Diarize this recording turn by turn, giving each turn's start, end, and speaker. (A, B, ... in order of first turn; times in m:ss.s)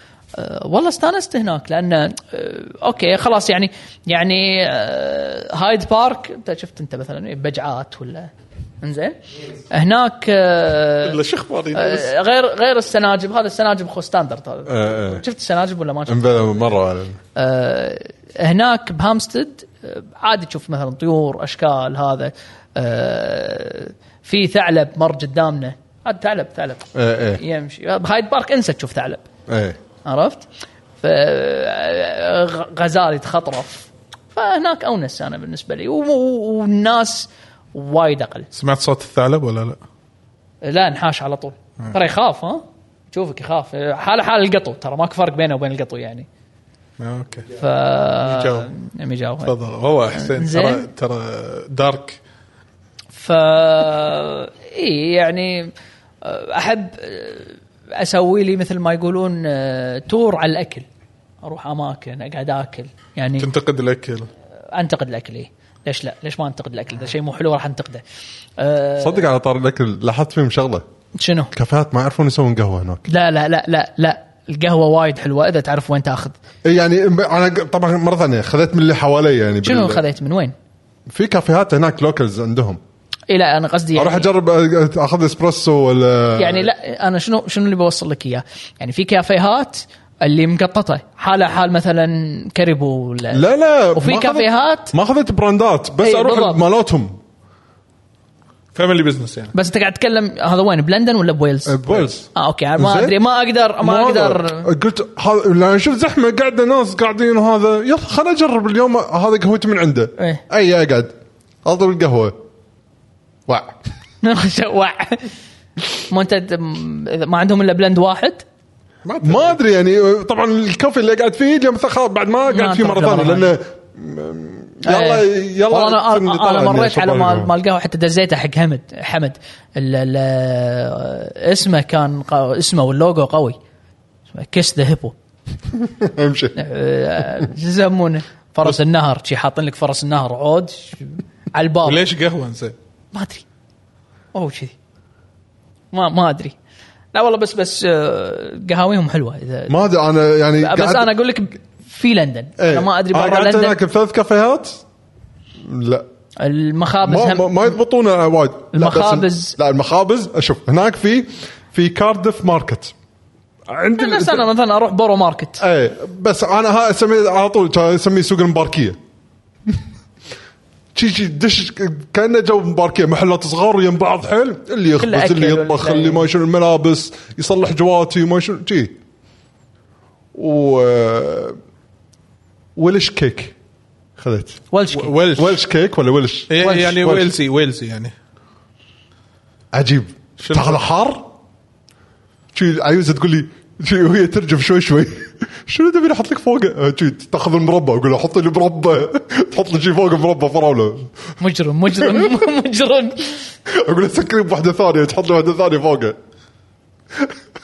0:00.3-0:11.2 A
0:11.0-0:12.1 B
0:11.7-0:16.5 A
0:14.7-0:15.2 C
0:16.1-0:17.2 C
0:17.4-0:29.2 A
0:26.9-0:27.4 C
0:29.5-0:29.8 C
0:30.0-0:30.4 A
0:31.0-0:38.5 A
0:38.5-0:39.8 B
0:40.6-0:46.3 A
0:47.0-0:47.5 B
0:47.5-0:49.5 A
0:48.2-0:48.7 B
0:49.4-0:52.2 B
0:50.1-0:50.9 A
0:53.1-0:55.7 A
0:56.2-1:00.8 A
1:01.4-1:03.5 A
1:03.4-1:04.3 B
1:04.7-1:08.0 A
1:08.6-1:09.2 A
1:09.0-1:10.8 C
1:11.2-1:11.5 A
1:11.5-1:13.1 C
1:13.1-1:16.4 A
1:16.6-1:20.0 C
1:19.6-1:20.5 A
1:21.1-1:22.8 C
1:23.3-1:24.3 A
1:23.9-1:26.7 C
1:26.4-1:34.9 A
1:33.3-1:37.2 C
1:36.0-1:36.6 A
1:38.7-1:39.5 B
1:39.5-1:44.7 A
1:41.6-1:43.2 C
1:43.8-1:51.1 C
1:51.6-1:52.4 C
1:53.5-1:53.7 C
1:54.2-1:55.3 A
1:56.1-1:58.4 A
1:59.0-1:59.5 B
1:59.2-2:07.5 C
2:02.5-2:03.5 A
2:04.8-2:13.6 A
2:14.3-2:15.1 A
2:15.7-2:16.6 C
2:16.6-2:22.0 A
2:21.8-2:22.7 B
2:23.1-2:23.4 A
2:24.3-2:24.7 A
2:25.9-2:26.5 A
2:27.1-2:29.8 A
2:29.7-2:31.1 C
2:30.6-2:33.8 A
2:32.6-2:34.8 C
2:35.6-2:36.0 C
2:36.4-2:37.7 A
2:37.0-2:42.9 C
2:38.7-2:39.5 A
2:43.7-2:44.5 C
2:43.9-2:45.6 A
2:45.6-2:49.0 C
2:50.9-2:59.0 C
2:55.0-2:56.2 A
3:00.3-3:01.6 C
3:02.8-3:03.5 C
3:04.2-3:04.6 C
3:04.7-3:05.1 A
3:04.9-3:05.5 B
3:05.3-3:07.3 C
3:06.5-3:08.1 B
3:09.7-3:11.3 C
3:10.4-3:10.8 B
3:12.5-3:21.3 C
3:21.4-3:23.5 A
3:22.0-3:22.3 C
3:23.7-3:26.2 C